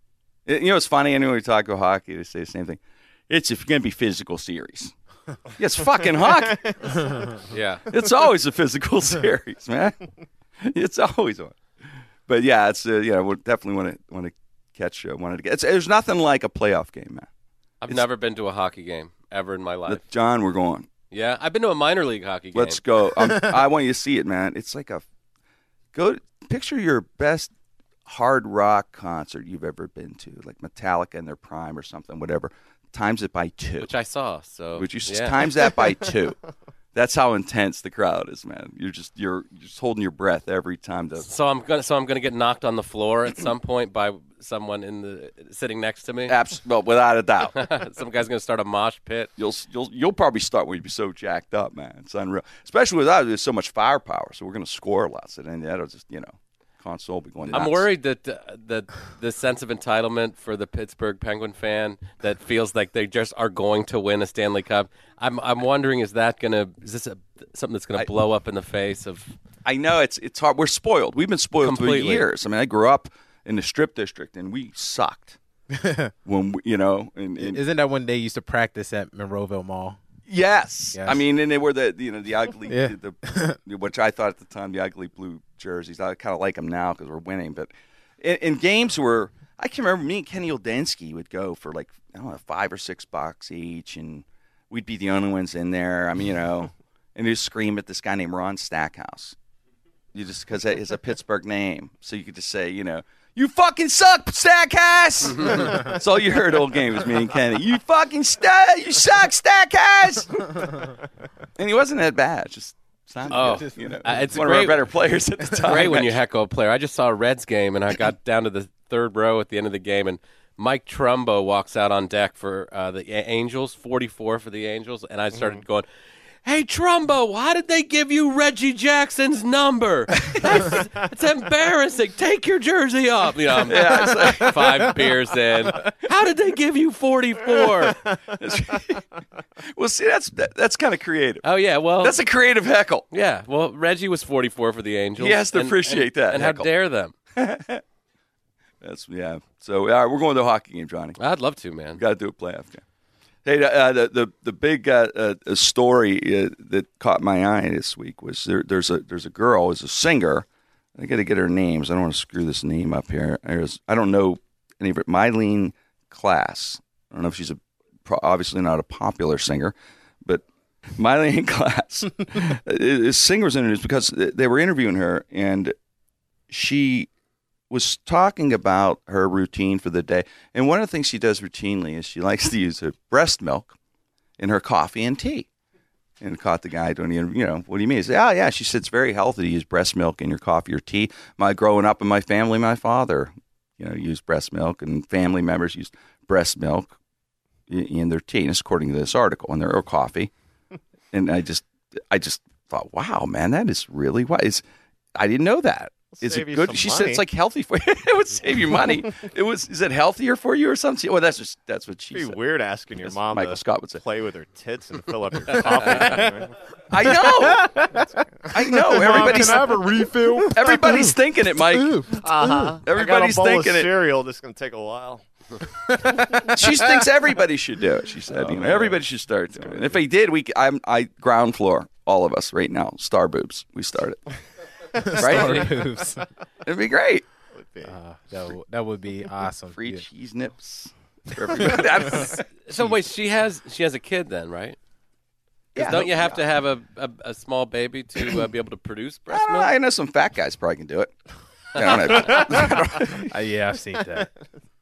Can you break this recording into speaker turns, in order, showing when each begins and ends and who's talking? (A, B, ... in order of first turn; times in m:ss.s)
0:00.4-0:04.9 A
0:05.6-0:07.0 A
0:06.2-0:07.2 B
0:07.5-0:07.9 C
0:07.9-0:10.0 A
0:10.6-0:11.5 A
0:12.3-0:17.3 A
0:17.8-0:20.0 C
0:19.8-0:20.9 A
0:21.1-0:22.8 C
0:22.5-0:25.0 A
0:25.9-0:27.5 A
0:28.0-0:33.9 A
0:33.8-0:35.8 C
0:34.7-0:36.4 A
0:36.9-0:41.3 A
0:41.2-0:46.4 C
0:46.3-0:47.6 A
0:47.5-0:49.3 C
0:49.4-0:57.9 A
0:57.5-1:09.3 C
1:09.6-1:15.4 A
1:11.6-1:12.2 C
1:15.7-1:16.1 D
1:16.2-1:17.6 A
1:17.4-1:20.0 D
1:20.3-1:39.4 A
1:20.9-1:21.2 D
1:22.7-1:23.6 D
1:40.1-1:50.7 A
1:45.3-1:46.0 C
1:51.6-1:56.2 A
1:53.3-1:54.9 C
1:53.4-1:54.3 D
1:55.6-2:05.8 C
2:06.4-2:18.1 C
2:13.6-2:14.8 A
2:18.4-2:19.0 A
2:19.6-2:21.4 A
2:21.4-2:22.2 C
2:22.0-2:23.1 A
2:23.1-2:27.1 C
2:25.2-2:26.7 A
2:27.4-2:27.8 A
2:28.8-2:31.2 A
2:31.2-2:32.0 C
2:32.0-2:32.8 A
2:33.4-2:49.7 A
2:51.0-2:55.7 A
2:56.5-2:57.1 A
2:57.7-3:03.7 A
3:04.4-3:05.5 A
3:06.2-3:16.9 A
3:17.7-3:20.3 A
3:21.1-3:24.6 A
3:25.2-3:32.4 A
3:26.2-3:27.2 B
3:32.1-3:36.5 B
3:33.0-3:34.0 A
3:35.9-3:36.2 D
3:36.9-3:37.8 A
3:37.0-3:42.8 D
3:38.5-3:39.8 A
3:40.4-3:42.2 A
3:42.1-3:45.2 B
3:42.8-3:43.9 A
3:45.8-3:47.0 D
3:46.4-3:54.2 A
3:48.3-3:49.0 B
3:49.6-3:50.0 B
3:54.9-3:56.2 D
3:55.1-3:55.8 A
3:56.6-3:57.2 A
3:57.5-3:57.9 B
3:57.8-4:00.0 D
3:59.7-4:02.9 A
4:01.6-4:02.2 D
4:02.6-4:04.8 C
4:05.7-4:06.4 A
4:05.8-4:09.7 C
4:09.3-4:11.1 A
4:11.7-4:13.3 A
4:11.8-4:12.4 C
4:12.3-4:14.3 D